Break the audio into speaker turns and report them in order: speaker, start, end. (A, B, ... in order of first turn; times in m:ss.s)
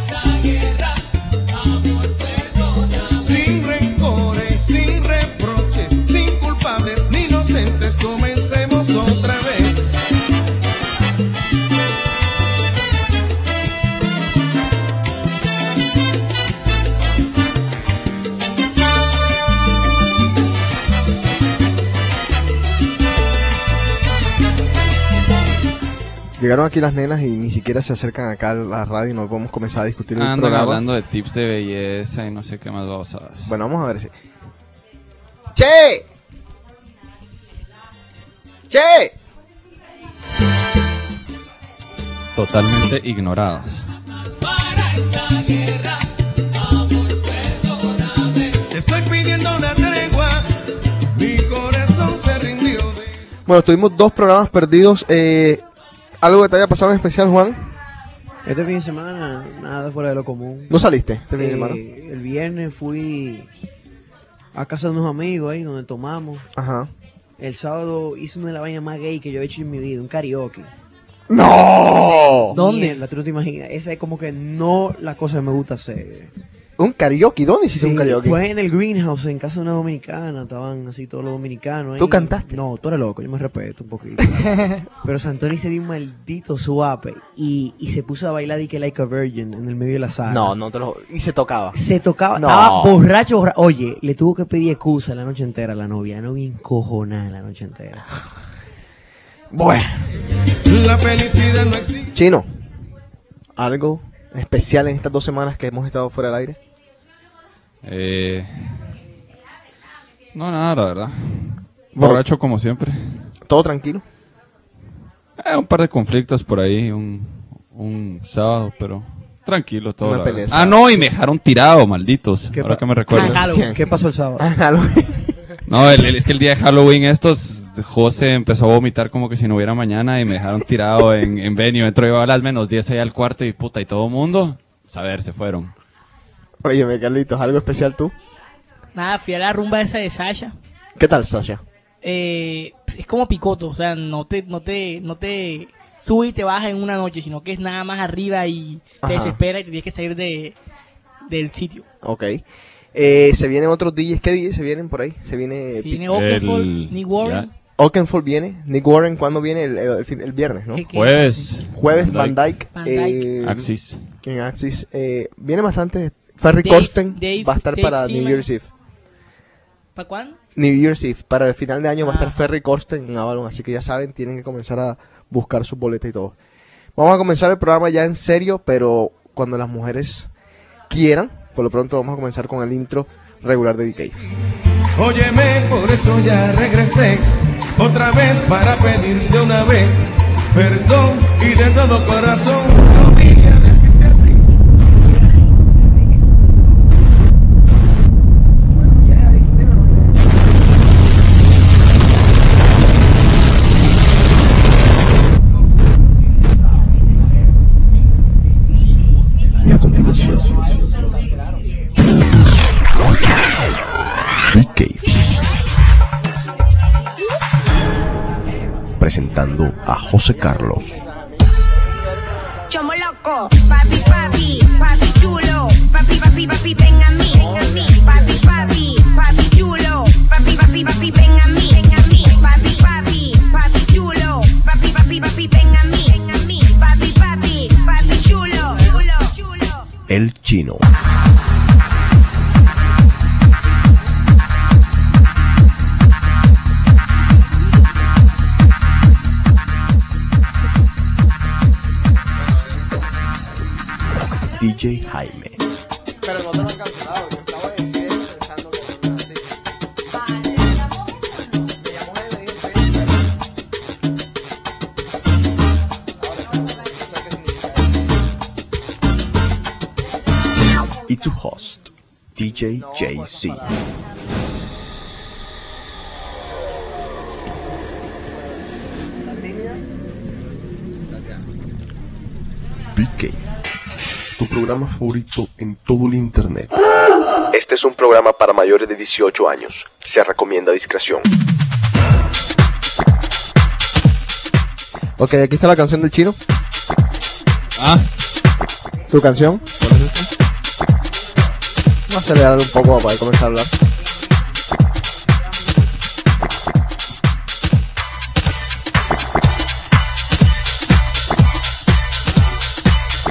0:03.1-0:09.8 A
0:26.4-0:30.8 B
0:30.2-0:33.6 C
0:33.5-0:34.1 B
0:35.5-0:36.0 B
0:38.7-0:39.2 B
0:42.4-0:43.9 C
0:48.7-0:50.5 A
0:51.1-0:53.2 A
0:53.5-0:55.6 B
0:56.2-0:57.7 B
0:58.4-1:00.8 D
1:00.7-1:01.8 B
1:01.4-1:03.5 D
1:04.5-1:06.5 D
1:06.6-1:06.9 B
1:07.4-1:10.7 D
1:11.3-1:12.6 B
1:11.9-1:16.3 D
1:12.5-1:13.0 E
1:16.8-1:18.4 B
1:17.7-1:30.5 D
1:22.0-1:22.6 B
1:30.3-1:31.8 B
1:31.7-1:38.1 D
1:32.3-1:33.0 B
1:39.5-1:40.1 B
1:40.6-1:42.1 A
1:42.1-1:42.5 B
1:43.6-1:46.6 B
1:47.8-1:48.8 C
1:50.3-1:53.3 C
1:52.0-1:52.2 B
1:53.4-1:54.0 B
1:55.4-2:03.5 C
2:00.0-2:00.8 B
2:02.5-2:04.5 D
2:03.1-2:03.8 B
2:03.1-2:03.8 E
2:04.4-2:05.3 B
2:05.7-2:15.7 C
2:16.6-2:18.1 B
2:18.9-2:20.6 E
2:21.0-2:21.6 B
2:22.0-2:30.6 E
2:29.0-2:29.4 B
2:31.3-2:31.9 E
2:32.0-2:36.0 B
2:35.8-2:37.5 E
2:36.1-2:37.5 C
2:37.8-2:40.8 B
2:40.7-2:41.6 E
2:40.9-2:42.6 C
2:41.7-2:43.7 B
2:42.7-2:43.4 E
2:43.4-2:44.1 C
2:44.2-2:48.7 B
2:46.5-2:48.5 E
2:50.0-2:50.4 E
2:50.6-2:56.4 B
2:52.0-2:52.4 E
2:57.0-3:00.3 B
3:00.9-3:04.2 B
3:05.0-3:14.4 A
3:18.8-3:20.4 B
3:29.6-3:30.8 F
3:34.5-3:35.2 F
3:39.0-3:41.0 F
3:40.3-3:42.6 B
3:42.7-4:00.0 G
3:47.3-3:48.8 B
4:00.1-4:00.9 F
4:14.2-4:15.6 F
4:16.2-4:19.6 B
4:21.8-4:23.3 B
4:26.2-4:28.0 B
4:31.0-4:33.7 F
4:32.7-4:33.8 B
4:39.2-4:39.8 B
4:41.1-4:41.4 B
4:42.9-4:43.4 F
4:44.3-4:46.8 F
4:47.5-4:51.3 B
4:55.2-4:56.4 B
4:57.8-4:58.0 C
4:59.1-5:00.3 B
5:02.1-5:03.7 B